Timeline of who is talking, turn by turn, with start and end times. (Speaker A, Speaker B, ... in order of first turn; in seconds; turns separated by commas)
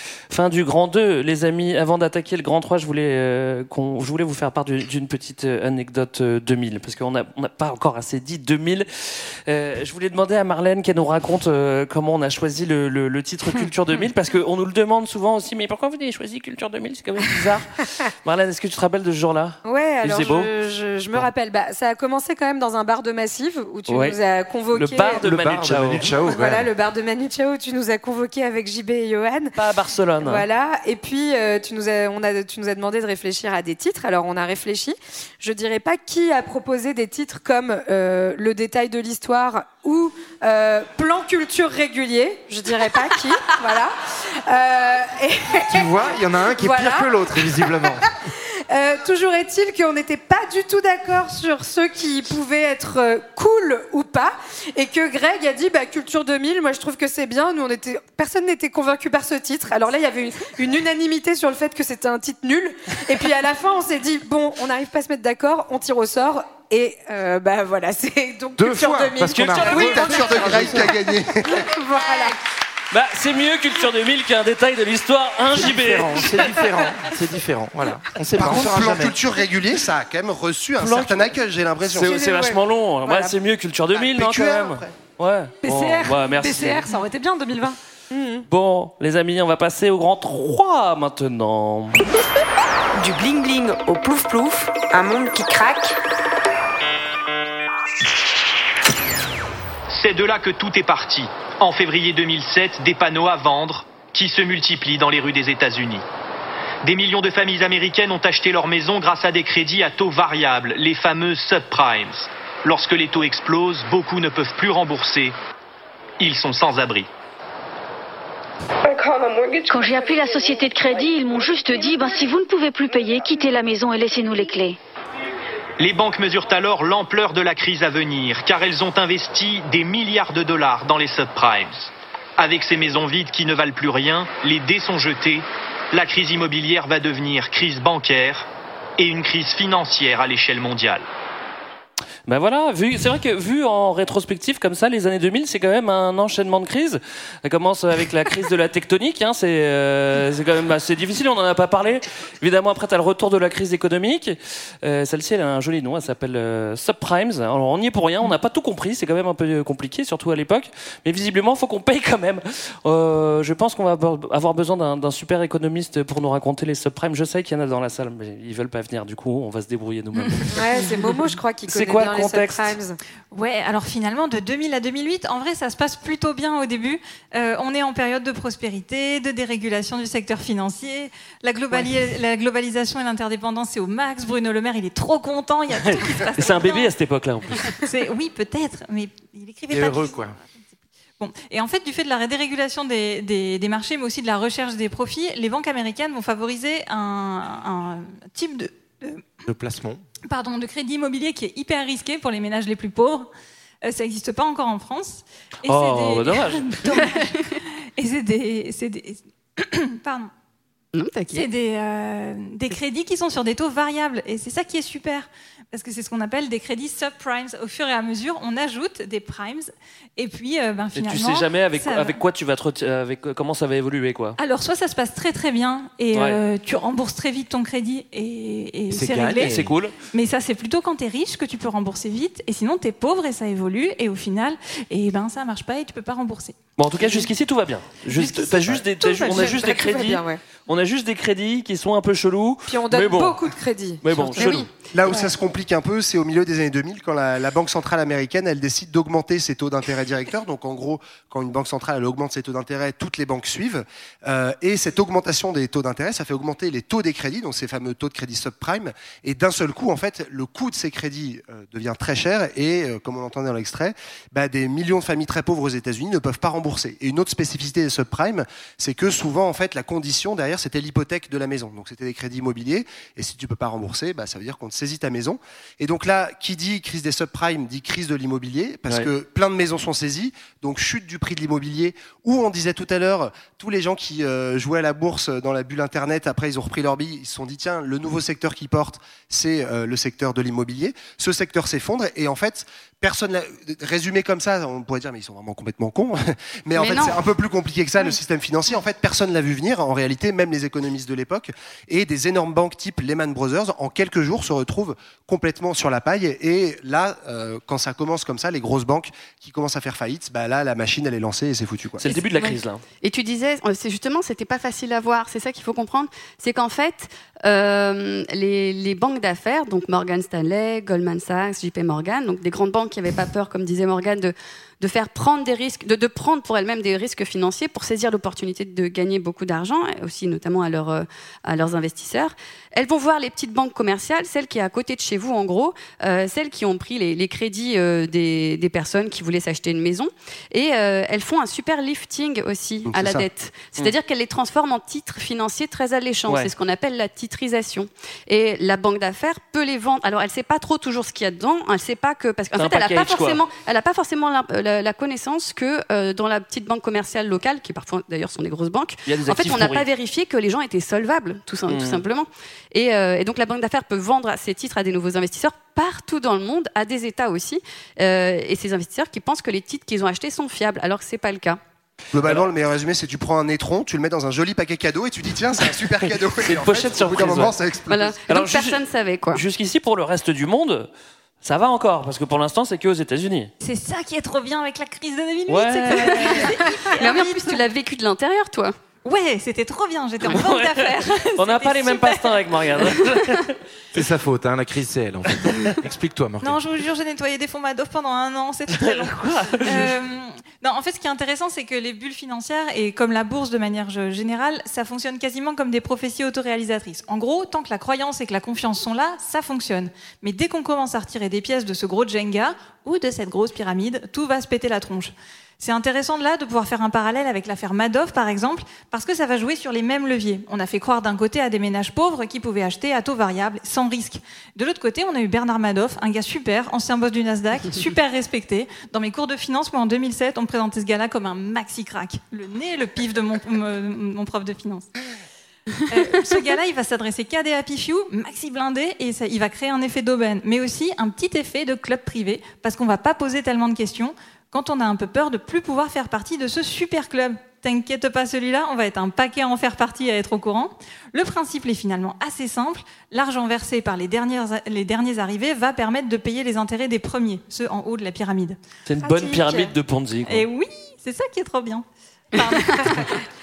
Speaker A: 0.3-20.5, Speaker B: 19.6-25.2, Speaker A: 23.9-24.1, Speaker A: 24.7-26.1, Speaker C: 25.2-26.7, Speaker B: 26.2-29.5, Speaker A: 29.6-30.4, Speaker B: 30.2-43.9, Speaker B: 44.5-47.5, Speaker C: 45.6-48.0, Speaker B: 48.7-70.9, Speaker C: 68.6-70.9, Speaker D: 69.7-71.6, Speaker B: 71.5-72.3, Speaker A: 72.9-76.4, Speaker C: 75.5-79.2, Speaker D: 78.4-82.2, Speaker A: 80.8-81.3, Speaker A: 81.9-86.8, Speaker B: 82.0-83.3, Speaker D: 83.9-84.9, Speaker E: 85.6-87.8, Speaker B: 88.1-88.4, Speaker A: 88.5-92.0, Speaker F: 92.9-96.0, Speaker G: 100.0-106.0, Speaker H: 100.0-102.0, Speaker H: 103.8-106.0, Speaker G: 106.8-115.2, Speaker H: 106.9-115.3, Speaker G: 116.2-117.1, Speaker H: 116.2-117.0, Speaker H: 119.6-124.8, Speaker G: 125.8-131.8, Speaker H: 125.8-131.9, Speaker G: 132.4-135.4, Speaker H: 132.4-135.4, Speaker H: 135.9-138.4, Speaker G: 136.0-138.4, Speaker G: 139.0-141.0, Speaker H: 139.0-141.0, Speaker A: 142.3-170.5, Speaker B: 170.5-173.0, Speaker A: 171.7-172.7, Speaker I: 173.3-186.9, Speaker A: 185.8-187.7, Speaker I: 187.8-190.3, Speaker C: 189.7-190.4, Speaker I: 191.2-199.2, Speaker C: 199.4-200.0, Speaker I: 200.3-203.3, Speaker I: 203.8-207.4, Speaker A: 205.7-206.7, Speaker J: 206.9-207.5, Speaker I: 208.0-210.3, Speaker J: 210.9-211.5, Speaker I: 211.3-222.2, Speaker A: 220.9-224.4, Speaker I: 224.4-229.6, Speaker C: 228.9-229.7, Speaker A: 229.4-229.9, Speaker I: 230.1-236.6, Speaker A: 236.8-243.4, Speaker I: 239.0-239.5, Speaker B: 239.3-240.4, Speaker B: 242.7-244.0, Speaker A: 244.0-244.7, Speaker J: 244.2-244.7, Speaker D: 244.4-312.0, Speaker J: 296.7-297.2, Speaker A: 312.0-312.8, Speaker J: 313.0-371.6, Speaker A: 352.6-353.4, Speaker A: 359.1-359.9, Speaker A: 361.7-362.0, Speaker D: 372.1-378.1, Speaker A: 376.4-377.5, Speaker J: 377.9-379.4, Speaker A: 378.3-378.8, Speaker A: 379.3-380.9, Speaker A: 381.4-383.5, Speaker I: 383.6-387.6, Speaker A: 385.5-386.4, Speaker J: 385.9-388.7, Speaker I: 389.0-392.2, Speaker A: 390.2-393.5, Speaker C: 393.9-396.6, Speaker I: 396.4-434.9, Speaker A: 398.8-399.9, Speaker I: 435.9-458.6, Speaker A: 458.9-460.4, Speaker B: 459.0-459.7, Speaker I: 460.3-461.8, Speaker I: 462.4-463.1, Speaker J: 462.4-462.8